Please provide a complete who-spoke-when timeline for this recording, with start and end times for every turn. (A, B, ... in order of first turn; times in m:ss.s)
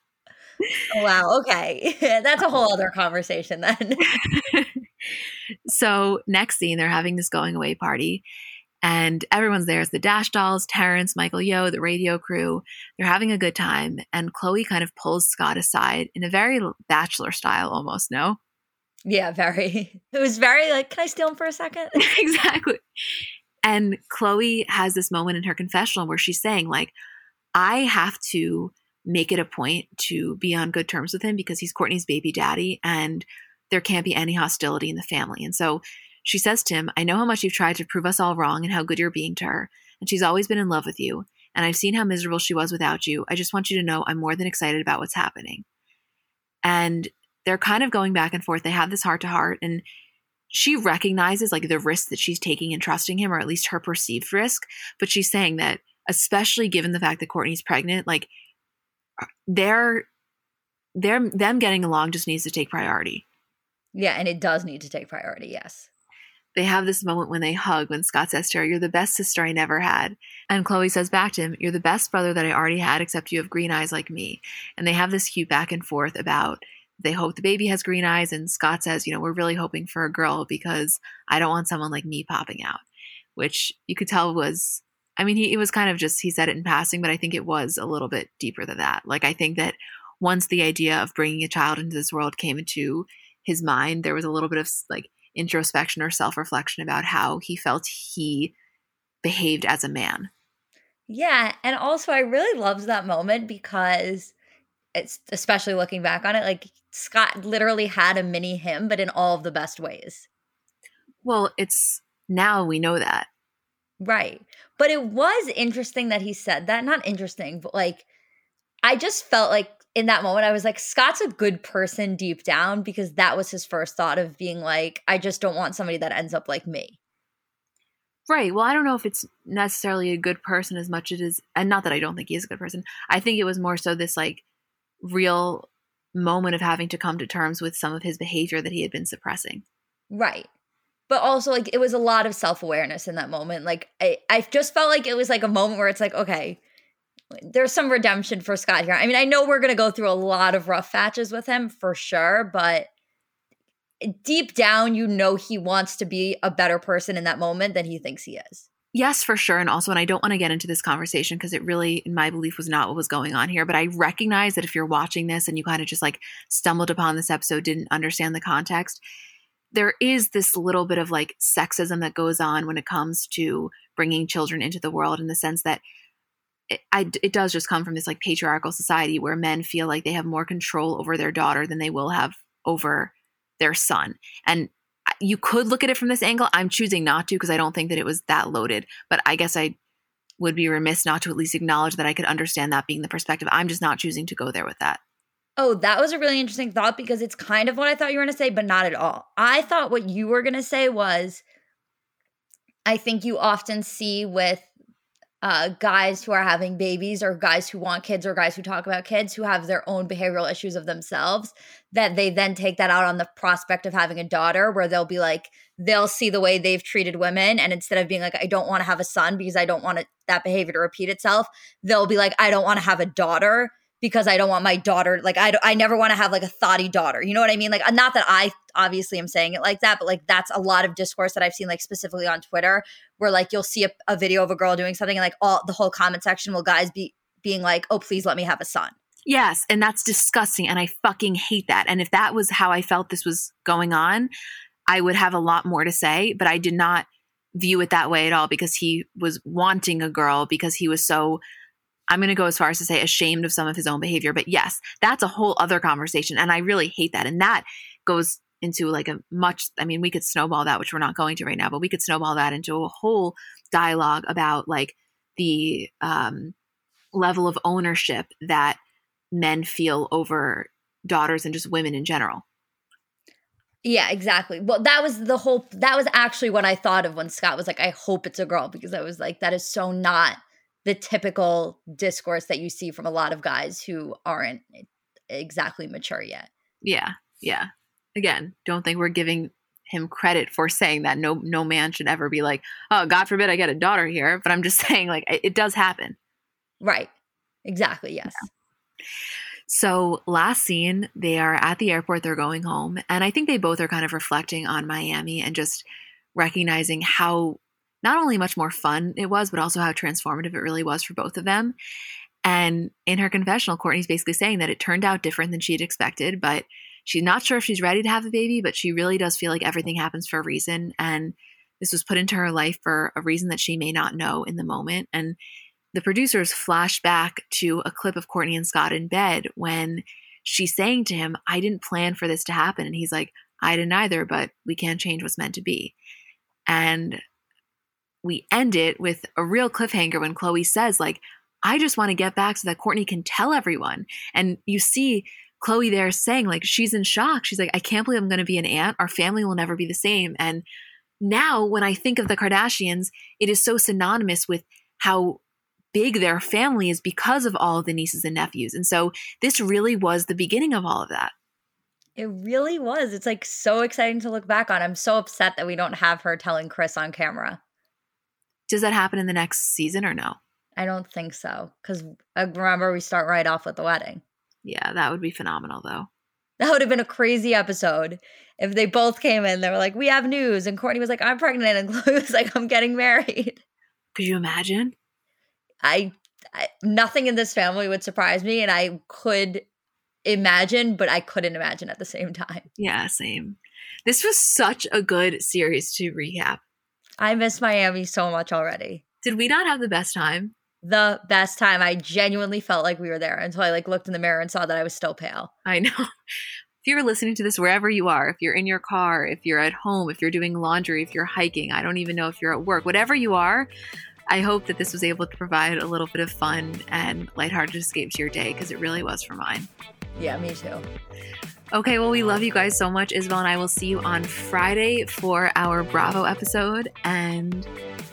0:00.9-0:04.1 A
0:04.1-0:04.7 B
0:05.7-0:08.2 B
0:08.8-0:18.4 B
0:19.0-0:22.0 A
0:22.0-0:22.8 B
0:23.6-0:26.9 B
0:27.5-0:45.6 B
0:46.6-0:49.8 B
0:50.5-0:58.3 B
0:59.5-1:00.1 B
1:01.0-1:03.2 B
1:03.9-1:05.9 A
1:06.5-1:22.8 B
1:23.4-1:38.5 B
1:39.2-1:40.3 B
1:41.1-1:44.3 A
1:44.9-1:50.3 A
1:51.2-1:53.3 B
1:54.0-1:58.0 A
1:58.8-2:07.0 A
2:08.3-2:14.4 B
2:15.0-2:19.6 B
2:20.1-2:20.5 A
2:21.1-2:26.6 A
2:27.3-2:32.9 A
2:34.0-2:38.6 A
2:38.9-2:49.0 B
2:49.7-2:55.8 B
2:56.7-3:09.7 B
3:10.4-3:15.0 B
3:15.6-3:21.4 A
3:22.8-3:24.7 A
3:25.4-3:58.9 A
3:59.3-4:04.3 B
4:04.9-4:11.4 B
4:12.1-4:26.5 B
4:27.1-4:28.8 B
4:29.3-4:32.4 B
4:33.8-4:46.5 A
4:46.8-4:56.2 B
4:56.8-4:57.1 A
4:57.6-4:58.5 A
4:59.7-5:11.7 B
5:12.4-5:25.4 B
5:25.9-5:35.9 B
5:36.7-5:37.2 B
5:38.2-5:50.6 B
5:51.2-5:55.4 B
5:55.9-6:01.3 B
6:02.2-6:07.6 A
6:08.7-6:10.4 B
6:10.8-6:14.2 A
6:14.6-6:16.1 B
6:16.6-6:23.6 A
6:24.1-6:24.9 B
6:25.8-6:29.6 A
6:30.2-6:32.7 A
6:32.8-6:36.6 B
6:37.2-6:39.0 A
6:39.2-6:40.5 B
6:40.8-6:45.5 A
6:45.6-6:46.0 B
6:46.8-6:53.7 B
6:54.3-6:59.7 B
7:00.2-7:00.8 A
7:01.7-7:07.7 B